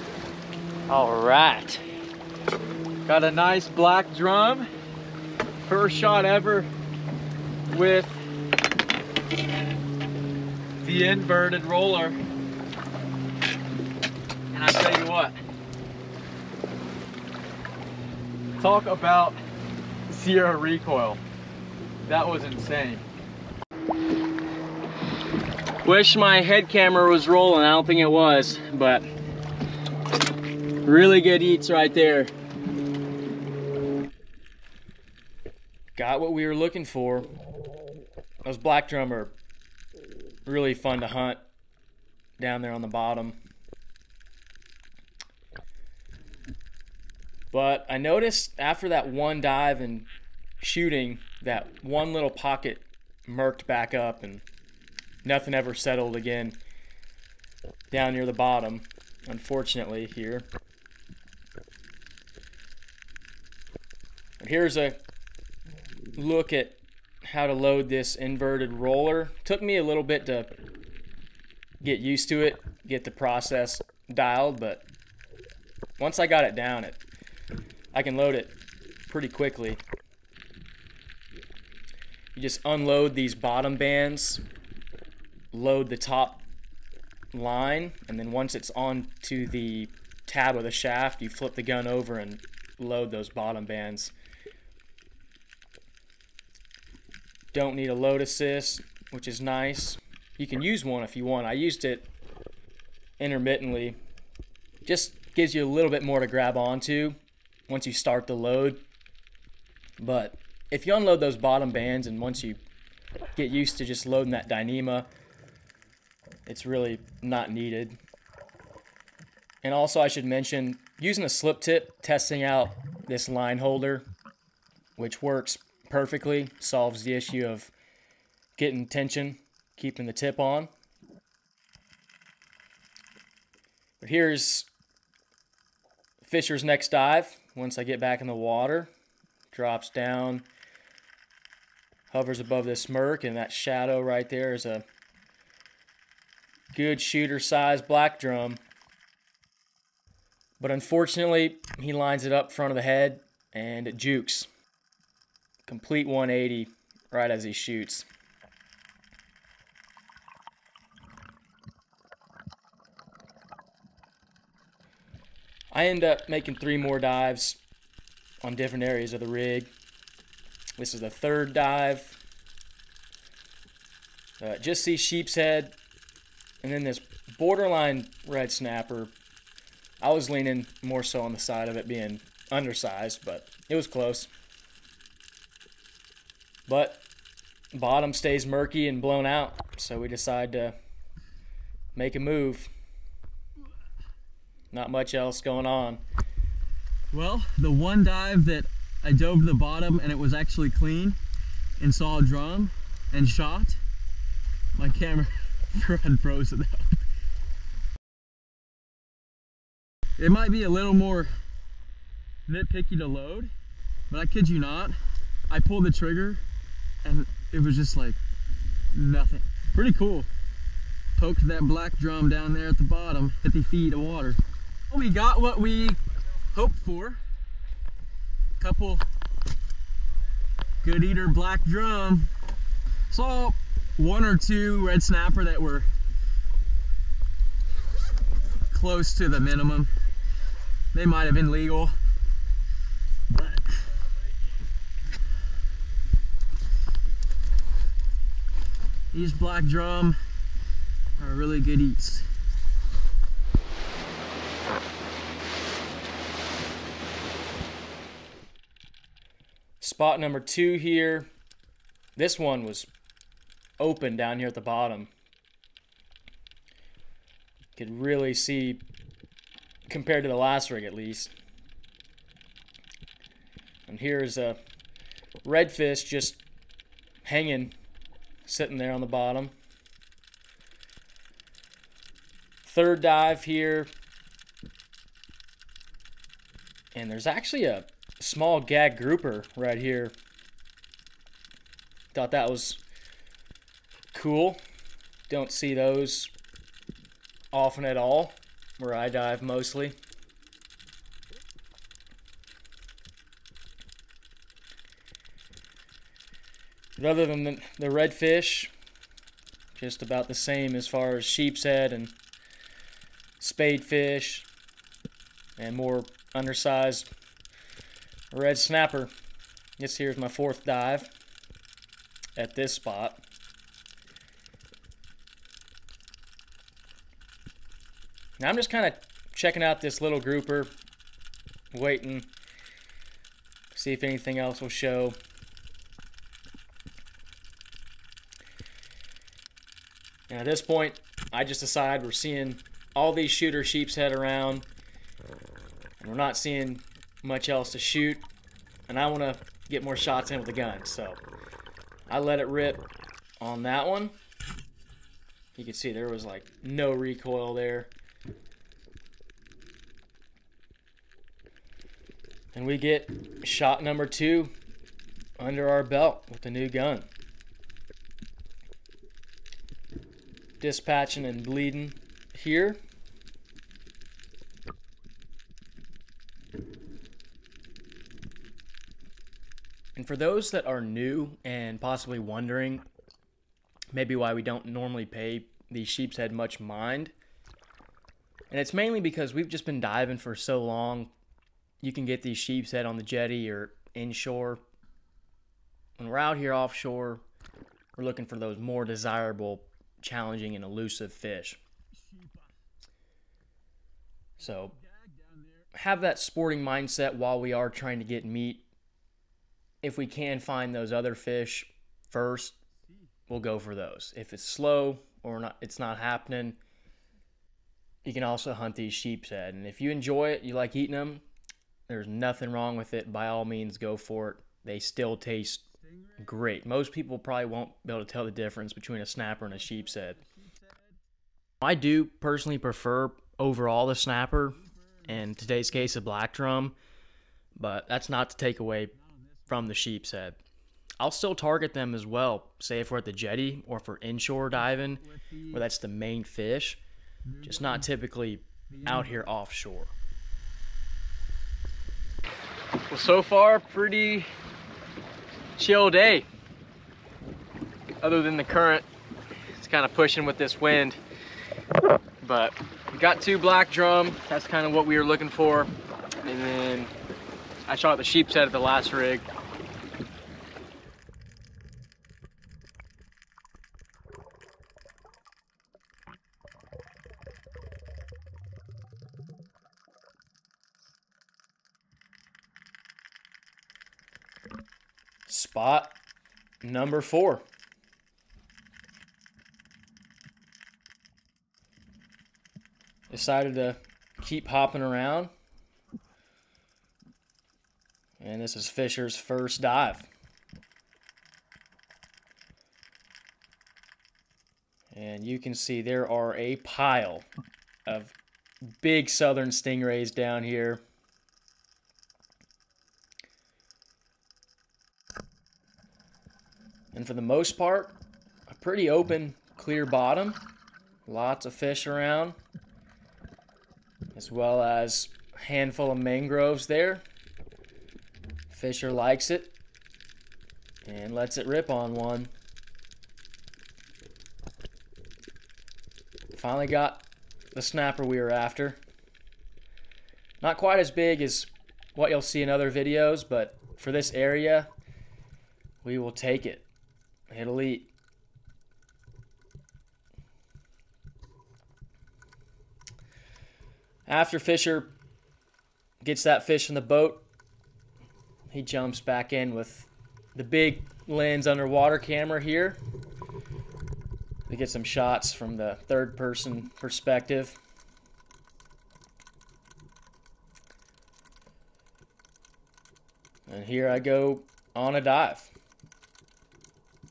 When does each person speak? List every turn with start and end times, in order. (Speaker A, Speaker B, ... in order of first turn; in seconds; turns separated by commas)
Speaker A: 0.9-1.8, Speaker B: 3.0-4.7, Speaker B: 5.7-6.7, Speaker B: 7.7-8.2, Speaker B: 10.8-12.2, Speaker B: 14.5-15.3, Speaker B: 18.6-19.4, Speaker B: 20.1-21.2, Speaker B: 22.0-23.0, Speaker A: 25.8-29.1, Speaker A: 30.8-32.3, Speaker A: 36.0-37.3, Speaker A: 38.4-39.3, Speaker A: 40.5-41.4, Speaker A: 42.4-43.4, Speaker A: 47.5-50.1, Speaker A: 50.6-54.4, Speaker A: 55.2-56.6, Speaker A: 57.9-60.5, Speaker A: 64.4-65.0, Speaker A: 66.1-70.5, Speaker A: 71.8-74.8, Speaker A: 76.0-77.0, Speaker A: 77.9-79.8, Speaker A: 82.3-84.4, Speaker A: 85.5-86.5, Speaker A: 87.3-94.1, Speaker A: 97.5-102.1, Speaker A: 103.2-104.0, Speaker A: 104.8-107.2, Speaker A: 107.7-108.8, Speaker A: 110.0-112.6, Speaker A: 113.3-115.1, Speaker A: 116.5-118.0, Speaker A: 119.6-124.0, Speaker A: 125.0-127.7, Speaker A: 128.6-130.7, Speaker A: 134.0-134.7, Speaker A: 136.2-138.9, Speaker A: 139.5-140.4, Speaker A: 142.1-144.8, Speaker A: 146.7-148.6, Speaker A: 150.6-154.5, Speaker A: 155.7-158.0, Speaker A: 165.7-167.6, Speaker A: 168.4-169.7, Speaker A: 170.8-172.2, Speaker A: 174.4-175.8, Speaker A: 176.6-179.1, Speaker A: 180.0-184.3, Speaker A: 186.7-187.0, Speaker A: 187.7-190.7, Speaker A: 191.9-192.7, Speaker A: 194.7-196.0, Speaker B: 197.1-201.2, Speaker B: 201.8-203.8, Speaker B: 204.8-207.0, Speaker B: 210.2-211.3, Speaker B: 212.5-213.5, Speaker B: 214.1-215.0, Speaker B: 215.5-216.4, Speaker B: 217.0-218.2, Speaker B: 218.9-220.3, Speaker B: 221.2-224.4, Speaker B: 224.9-226.0, Speaker B: 226.5-227.2, Speaker B: 228.6-229.0, Speaker B: 230.8-232.3, Speaker B: 233.1-235.9, Speaker B: 238.7-239.9, Speaker B: 240.9-241.9, Speaker B: 243.3-243.9, Speaker B: 249.1-250.2, Speaker B: 251.2-252.3, Speaker A: 259.8-261.3, Speaker A: 262.1-262.9, Speaker A: 263.8-265.1, Speaker A: 267.8-268.8, Speaker A: 269.9-271.3, Speaker A: 273.9-274.6, Speaker A: 275.4-276.4, Speaker A: 277.2-277.7, Speaker A: 278.4-279.5, Speaker A: 282.6-283.9, Speaker A: 286.9-290.1, Speaker A: 292.1-292.8, Speaker A: 294.1-294.6, Speaker A: 295.3-296.3, Speaker A: 297.5-299.9, Speaker A: 307.0-308.7, Speaker A: 309.7-312.1, Speaker A: 313.4-314.5, Speaker A: 315.6-317.1, Speaker A: 318.3-319.1, Speaker A: 319.8-321.1, Speaker A: 322.4-323.2, Speaker A: 328.4-330.7, Speaker A: 331.7-332.3, Speaker A: 333.7-335.2, Speaker A: 340.3-344.6, Speaker A: 346.0-348.2, Speaker A: 348.9-351.2, Speaker A: 352.1-352.9, Speaker A: 353.4-354.1, Speaker A: 355.6-357.9, Speaker A: 362.5-364.5, Speaker A: 365.4-367.1, Speaker A: 370.6-372.8, Speaker A: 379.9-382.9, Speaker A: 383.9-387.1, Speaker A: 388.5-391.1, Speaker A: 391.8-394.6, Speaker A: 396.0-397.2, Speaker A: 398.0-401.6, Speaker B: 402.0-402.4, Speaker A: 404.4-404.7, Speaker B: 404.7-405.6, Speaker A: 405.7-408.7, Speaker A: 409.8-412.6, Speaker A: 413.3-416.6, Speaker A: 418.0-421.2, Speaker A: 421.9-425.6, Speaker B: 425.8-426.2, Speaker A: 426.2-430.2, Speaker B: 429.6-431.0, Speaker A: 431.6-436.8, Speaker B: 434.6-435.1, Speaker A: 437.6-438.9, Speaker B: 439.0-439.3, Speaker A: 439.5-440.4, Speaker A: 441.0-446.8, Speaker B: 444.6-445.6, Speaker B: 447.2-447.9, Speaker A: 447.4-449.9, Speaker B: 448.7-449.2, Speaker A: 452.9-454.2, Speaker A: 455.6-456.2, Speaker A: 458.0-458.8, Speaker A: 459.6-461.0, Speaker A: 462.2-465.7, Speaker A: 466.2-466.9, Speaker A: 467.7-469.2, Speaker A: 485.3-485.9, Speaker A: 486.6-487.4, Speaker A: 493.1-495.3, Speaker A: 498.2-500.1, Speaker A: 504.9-507.2, Speaker A: 507.9-508.1, Speaker A: 508.7-510.8, Speaker A: 516.9-517.9, Speaker A: 518.5-520.4, Speaker A: 521.0-522.4, Speaker A: 524.1-527.0, Speaker A: 528.5-529.5, Speaker A: 530.8-532.3, Speaker A: 536.3-538.8, Speaker A: 540.4-544.7, Speaker A: 545.8-546.6, Speaker A: 547.3-547.9, Speaker A: 554.1-554.9, Speaker A: 556.0-557.2, Speaker A: 558.5-562.8, Speaker A: 564.5-567.6, Speaker A: 573.5-575.5